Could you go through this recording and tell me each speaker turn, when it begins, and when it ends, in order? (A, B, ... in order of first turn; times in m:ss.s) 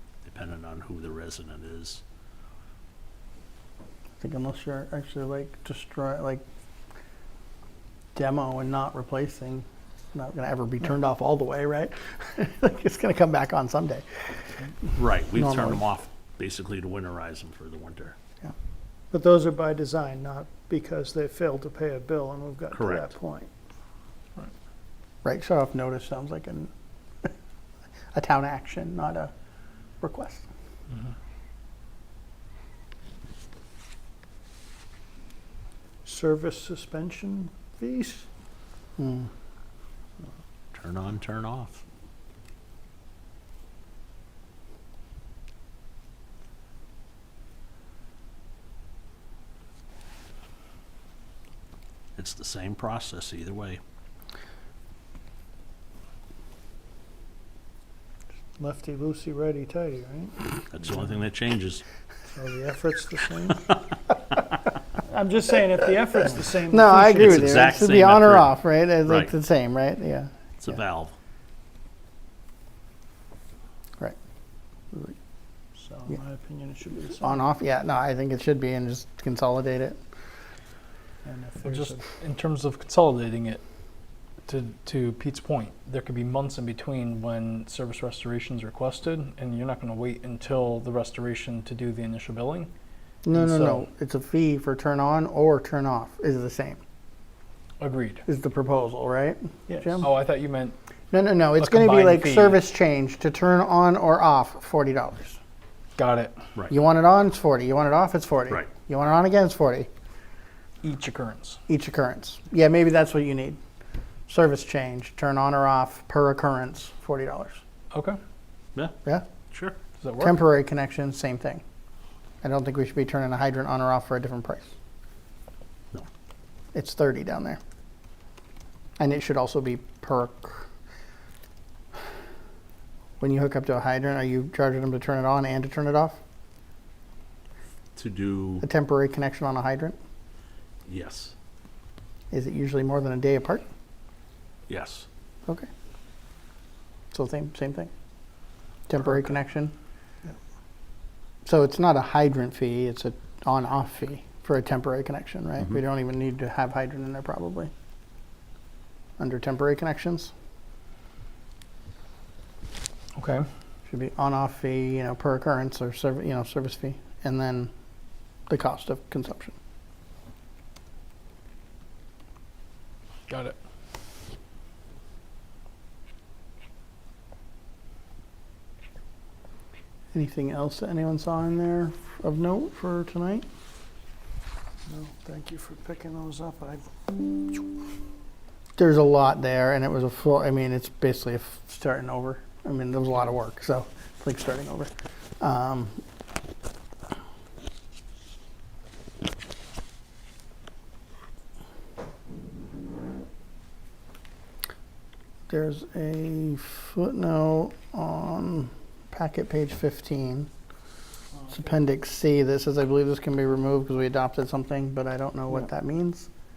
0:00.2-0:02.0 A
0:04.2-0:06.4 B
0:08.2-0:14.5 B
0:14.9-0:18.2 A
0:15.4-0:15.8 B
0:19.1-0:23.5 C
0:22.7-0:23.1 A
0:25.2-0:26.7 B
0:28.1-0:29.3 B
0:30.0-0:30.5 B
0:36.0-0:38.3 C
0:39.0-0:39.3 B
0:40.7-0:41.8 A
0:52.2-0:53.8 A
0:58.6-1:00.4 C
1:00.7-1:01.8 A
1:02.3-1:03.8 C
1:05.0-1:07.7 C
1:06.7-1:10.3 B
1:07.1-1:08.5 A
1:09.0-1:09.3 A
1:10.6-1:11.2 A
1:15.8-1:17.4 C
1:17.2-1:20.0 B
1:21.2-1:22.0 C
1:21.6-1:23.6 D
1:24.5-1:32.7 D
1:33.2-1:36.8 B
1:33.3-1:33.8 D
1:37.8-1:38.2 D
1:38.3-1:40.1 B
1:39.7-1:40.0 C
1:40.0-1:40.8 D
1:41.1-1:45.4 B
1:41.6-1:42.6 D
1:46.0-1:46.4 D
1:46.7-1:49.9 B
1:50.8-1:51.6 D
1:51.7-1:53.6 B
1:54.3-1:57.6 B
1:57.9-1:58.2 D
1:59.5-1:59.8 A
2:00.0-2:00.4 D
2:00.2-2:01.6 B
2:02.4-2:04.7 B
2:06.7-2:07.6 B
2:09.0-2:10.7 B
2:13.2-2:16.2 B
2:18.0-2:18.6 A
2:18.6-2:20.0 B
2:20.8-2:21.3 A
2:22.3-2:23.6 B
2:24.7-2:25.1 A
2:27.1-2:27.9 B
2:28.9-2:29.7 B
2:31.4-2:37.7 B
2:39.2-2:40.3 B
2:43.2-2:43.4 D
2:43.9-2:47.7 B
2:48.5-2:49.6 B
2:53.3-2:53.6 D
3:00.1-3:03.4 B
3:04.9-3:07.3 C
3:08.8-3:16.0 B
3:25.5-3:30.5 B
3:31.3-3:31.8 D
3:31.5-3:36.3 B